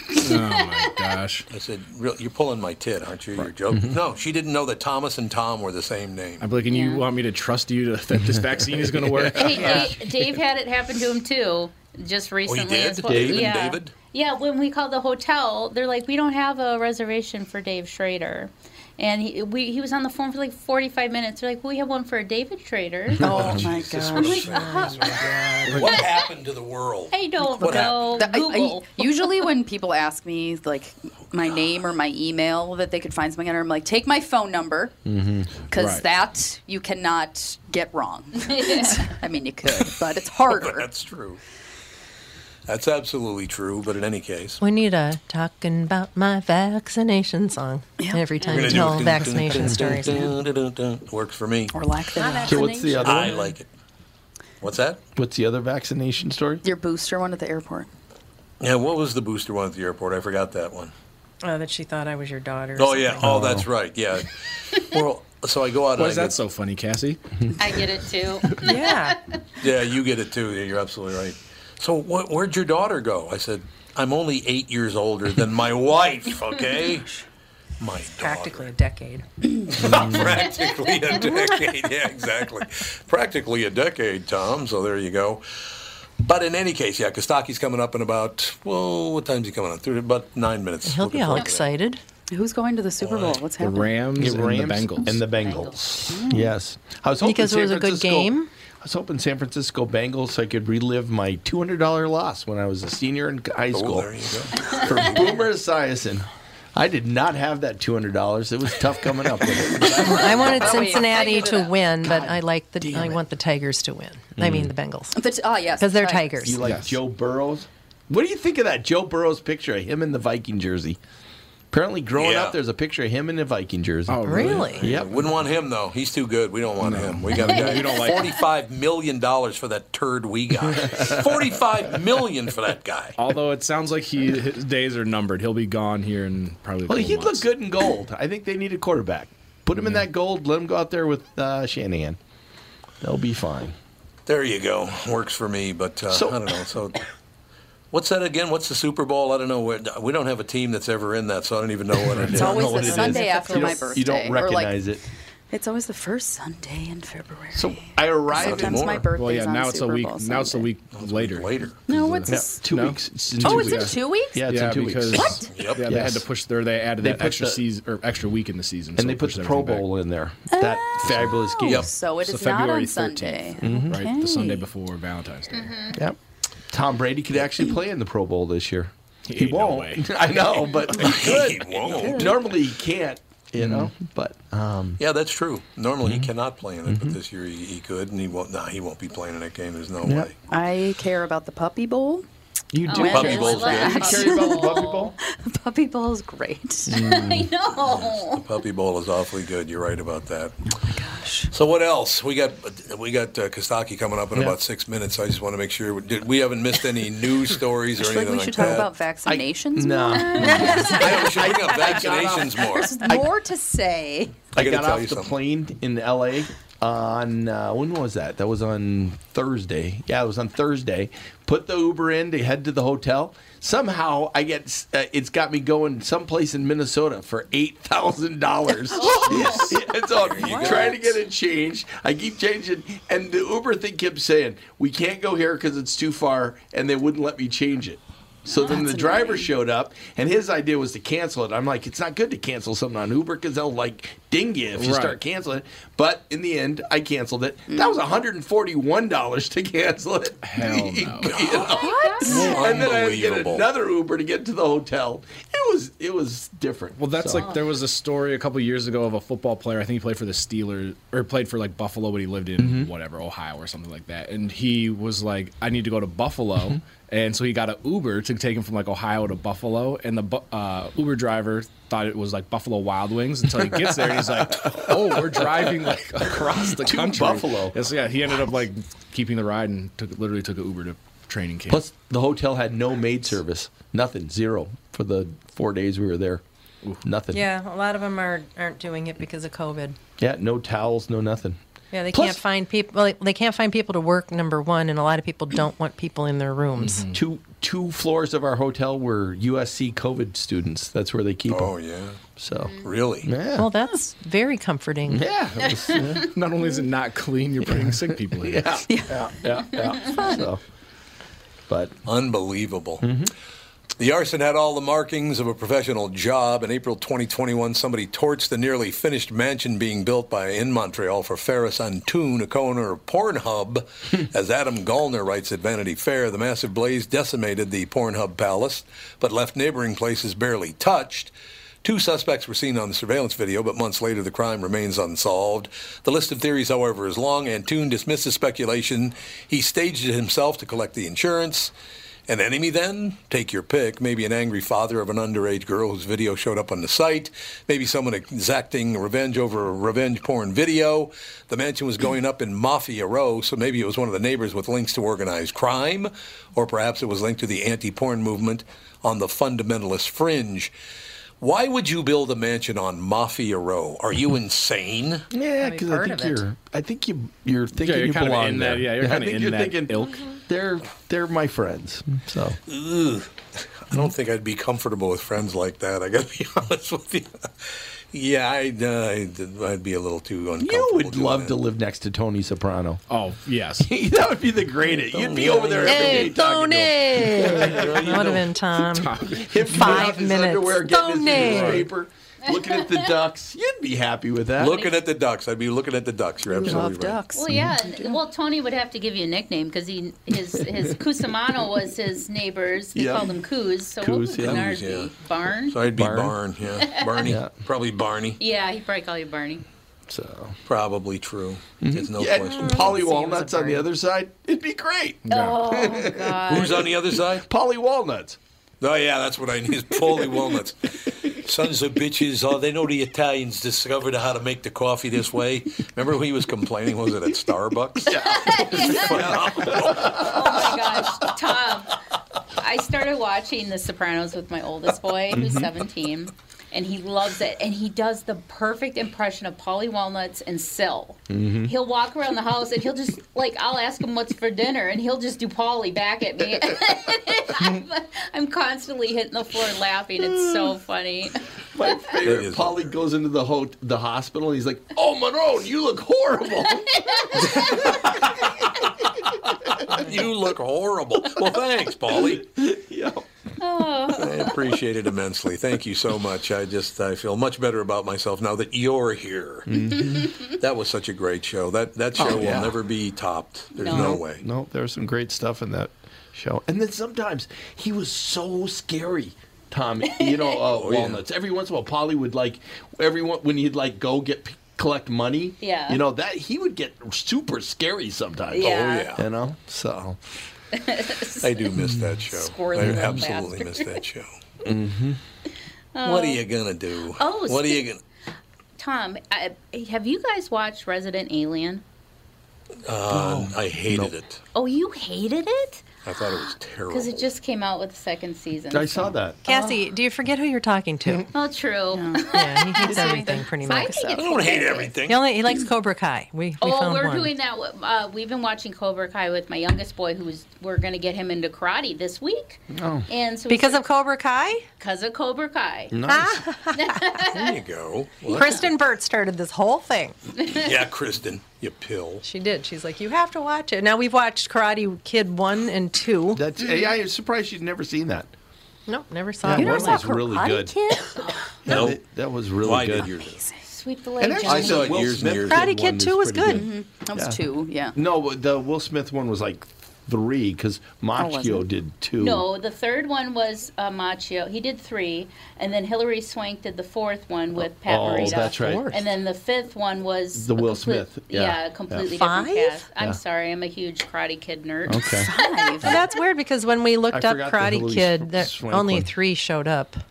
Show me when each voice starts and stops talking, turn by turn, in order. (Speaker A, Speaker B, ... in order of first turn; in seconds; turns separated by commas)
Speaker A: 0.1-1.5, Speaker B: 1.5-6.5, Speaker A: 6.4-9.9, Speaker C: 6.7-7.0, Speaker D: 8.8-10.2, Speaker C: 9.3-23.6, Speaker B: 12.4-13.9, Speaker D: 13.1-13.6, Speaker E: 23.2-25.8, Speaker B: 23.2-28.2, Speaker C: 24.1-26.1, Speaker A: 25.7-26.0, Speaker C: 27.1-29.2, Speaker E: 27.6-34.9, Speaker D: 35.0-35.7, Speaker E: 35.7-40.9, Speaker A: 35.8-36.0, Speaker C: 38.4-39.1, Speaker B: 40.5-41.4, Speaker B: 42.7-44.6, Speaker F: 44.6-50.3, Speaker B: 48.5-51.7, Speaker E: 51.7-53.0, Speaker F: 52.1-53.5, Speaker D: 52.4-53.3, Speaker B: 53.0-53.7, Speaker B: 54.6-55.0, Speaker D: 55.1-56.6, Speaker E: 56.6-57.9, Speaker B: 58.6-60.9, Speaker F: 61.4-63.4, Speaker B: 62.8-66.4, Speaker D: 63.2-63.6, Speaker A: 66.0-67.5, Speaker C: 67.6-69.4, Speaker F: 68.6-69.2, Speaker B: 69.6-77.1, Speaker B: 77.8-78.7, Speaker F: 78.1-79.2, Speaker B: 79.7-85.5, Speaker D: 79.8-80.4, Speaker F: 81.2-81.7, Speaker B: 86.2-91.7, Speaker F: 90.8-92.0, Speaker C: 91.3-91.6, Speaker E: 92.3-94.0, Speaker B: 93.0-93.4, Speaker A: 93.6-95.2, Speaker D: 94.1-110.8, Speaker C: 95.3-95.8, Speaker E: 96.1-96.5, Speaker F: 97.2-98.5, Speaker B: 103.7-105.2, Speaker E: 109.7-111.7, Speaker F: 110.0-115.2, Speaker C: 111.0-111.5, Speaker D: 112.0-113.2, Speaker D: 114.4-114.7, Speaker A: 114.4-114.7, Speaker E: 115.1-116.5, Speaker F: 115.8-116.6, Speaker D: 116.4-121.0, Speaker A: 116.6-117.0, Speaker D: 121.7-125.2, Speaker B: 122.2-122.6, Speaker A: 124.1-124.7, Speaker F: 124.2-124.8, Speaker B: 124.5-133.2, Speaker A: 126.8-128.4, Speaker C: 127.3-128.2, Speaker A: 133.2-137.4, Speaker D: 136.9-142.2, Speaker D: 143.0-143.8, Speaker B: 144.2-147.0, Speaker D: 146.1-146.6, Speaker B: 147.9-152.6, Speaker D: 152.1-155.0, Speaker E: 152.3-154.8, Speaker F: 152.4-153.9, Speaker E: 155.5-160.7, Speaker D: 157.5-159.1, Speaker B: 158.3-159.0, Speaker A: 159.1-169.8, Speaker B: 160.9-161.8, Speaker E: 161.9-162.6, Speaker D: 162.3-166.3, Speaker E: 163.4-164.5, Speaker E: 165.1-165.5, Speaker B: 165.5-165.8, Speaker D: 167.0-167.6, Speaker D: 168.9-171.9, Speaker E: 170.5-174.7, Speaker A: 172.2-175.7, Speaker D: 173.6-174.0, Speaker C: 175.5-176.0, Speaker D: 176.7-185.0, Speaker A: 179.3-180.2, Speaker B: 181.0-182.4, Speaker A: 183.6-183.9, Speaker B: 185.0-190.3, Speaker D: 186.0-186.3, Speaker D: 186.9-187.2, Speaker D: 190.0-190.3, Speaker E: 190.5-192.2, Speaker D: 192.7-195.1, Speaker E: 192.8-196.9, Speaker C: 192.9-195.1, Speaker B: 193.0-194.3, Speaker D: 196.9-197.5, Speaker C: 196.9-198.4, Speaker B: 197.9-200.6, Speaker E: 200.9-201.5, Speaker B: 201.5-208.9, Speaker E: 208.0-211.7, Speaker D: 208.7-213.3, Speaker B: 210.6-212.9, Speaker E: 212.5-214.4, Speaker D: 214.5-257.5, Speaker B: 214.6-215.3, Speaker C: 228.9-229.8, Speaker E: 229.0-229.6, Speaker B: 230.1-231.0, Speaker F: 230.4-231.2, Speaker E: 238.5-239.5, Speaker A: 244.8-245.2, Speaker E: 247.7-248.0, Speaker A: 250.4-251.4, Speaker B: 251.2-251.7, Speaker C: 251.5-252.7, Speaker E: 251.6-252.6, Speaker B: 252.2-253.7, Speaker A: 257.0-281.8, Speaker D: 262.6-262.9, Speaker D: 274.7-275.4, Speaker D: 276.8-277.8, Speaker D: 281.7-286.4, Speaker D: 287.0-287.4, Speaker F: 287.3-290.0, Speaker D: 290.2-291.6, Speaker F: 291.9-297.1, Speaker D: 292.1-292.4, Speaker A: 296.8-297.2, Speaker D: 297.1-301.7, Speaker B: 301.5-302.2, Speaker D: 302.4-303.7, Speaker B: 302.8-303.3, Speaker F: 303.5-305.3, Speaker D: 305.1-306.3, Speaker A: 306.2-308.8, Speaker D: 307.7-310.6, Speaker E: 308.9-310.1, Speaker D: 311.7-312.0, Speaker B: 312.1-313.1, Speaker D: 313.0-313.3, Speaker B: 314.0-341.7, Speaker B: 342.3-360.7, Speaker B: 361.4-365.2, Speaker D: 365.3-372.6, Speaker F: 365.6-366.4, Speaker A: 367.8-370.2, Speaker B: 372.7-381.6, Speaker D: 380.6-383.0, Speaker A: 383.1-383.9, Speaker D: 383.8-388.2, Speaker B: 385.1-386.4, Speaker F: 385.8-391.9, Speaker B: 387.5-388.5, Speaker A: 388.9-390.1, Speaker D: 389.2-394.8, Speaker A: 391.3-391.9, Speaker C: 392.5-393.1, Speaker B: 394.6-397.2, Speaker E: 396.5-398.1, Speaker C: 397.3-405.8, Speaker D: 402.9-403.3, Speaker D: 404.0-404.6, Speaker B: 404.4-405.1, Speaker B: 405.7-408.4, Speaker D: 405.9-406.4, Speaker C: 406.9-407.2, Speaker D: 407.2-407.5, Speaker C: 408.4-409.6, Speaker D: 410.1-410.6, Speaker B: 410.7-412.9, Speaker D: 411.8-416.6, Speaker F: 412.4-413.9, Speaker A: 415.3-415.6, Speaker C: 415.3-416.9, Speaker B: 416.5-417.5, Speaker D: 417.3-418.4, Speaker B: 418.8-431.4, Speaker D: 428.1-430.4, Speaker C: 428.2-432.0, Speaker C: 432.5-451.9, Speaker D: 435.3-435.7, Speaker D: 441.3-441.7, Speaker D: 450.2-450.8, Speaker D: 451.7-460.1, Speaker B: 452.2-452.9, Speaker C: 456.9-457.4, Speaker B: 457.4-458.1, Speaker B: 459.9-462.5, Speaker D: 462.1-463.2, Speaker C: 463.6-464.5, Speaker B: 464.1-469.7, Speaker D: 469.7-470.3, Speaker B: 470.5-474.4, Speaker D: 472.2-472.8, Speaker C: 473.7-474.2, Speaker D: 473.9-490.2, Speaker C: 480.1-480.6, Speaker B: 480.7-481.2, Speaker C: 485.6-486.0, Speaker C: 488.5-489.1, Speaker B: 488.6-489.2, Speaker C: 490.7-491.6, Speaker B: 491.4-494.3, Speaker D: 491.7-492.2, Speaker C: 492.3-494.0, Speaker D: 492.8-493.2, Speaker D: 494.6-495.2, Speaker C: 495.9-496.4, Speaker B: 496.0-498.0, Speaker C: 497.2-497.9, Speaker C: 498.8-501.8, Speaker B: 502.9-504.4, Speaker D: 503.1-504.1, Speaker C: 504.5-505.8, Speaker B: 506.0-507.3, Speaker C: 506.9-509.9, Speaker D: 508.7-509.4, Speaker F: 509.4-511.3, Speaker C: 511.3-515.0, Speaker E: 511.9-513.2, Speaker F: 512.3-517.3, Speaker B: 514.1-515.2, Speaker C: 516.6-523.8, Speaker D: 522.7-523.1, Speaker F: 523.5-524.6, Speaker C: 524.8-526.0, Speaker D: 525.9-526.5, Speaker F: 526.0-527.0, Speaker C: 526.8-527.6, Speaker B: 527.2-528.6, Speaker F: 528.3-530.1, Speaker B: 530.5-532.2, Speaker F: 532.2-536.5, Speaker D: 536.3-538.3, Speaker F: 538.9-541.2, Speaker D: 539.4-540.7, Speaker E: 539.6-541.2, Speaker D: 541.6-543.1, Speaker B: 541.6-542.0, Speaker B: 542.6-543.4, Speaker E: 543.2-543.5, Speaker C: 543.6-545.0, Speaker D: 544.2-547.4, Speaker B: 544.5-545.7, Speaker F: 545.4-546.6, Speaker E: 546.5-548.0, Speaker D: 547.9-552.5, Speaker E: 551.2-551.6, Speaker C: 552.2-566.0, Speaker D: 557.9-559.0, Speaker F: 558.2-558.9, Speaker D: 560.3-562.0, Speaker F: 562.1-562.9, Speaker D: 564.9-565.3, Speaker E: 565.2-565.8, Speaker F: 565.8-570.0, Speaker D: 567.1-569.1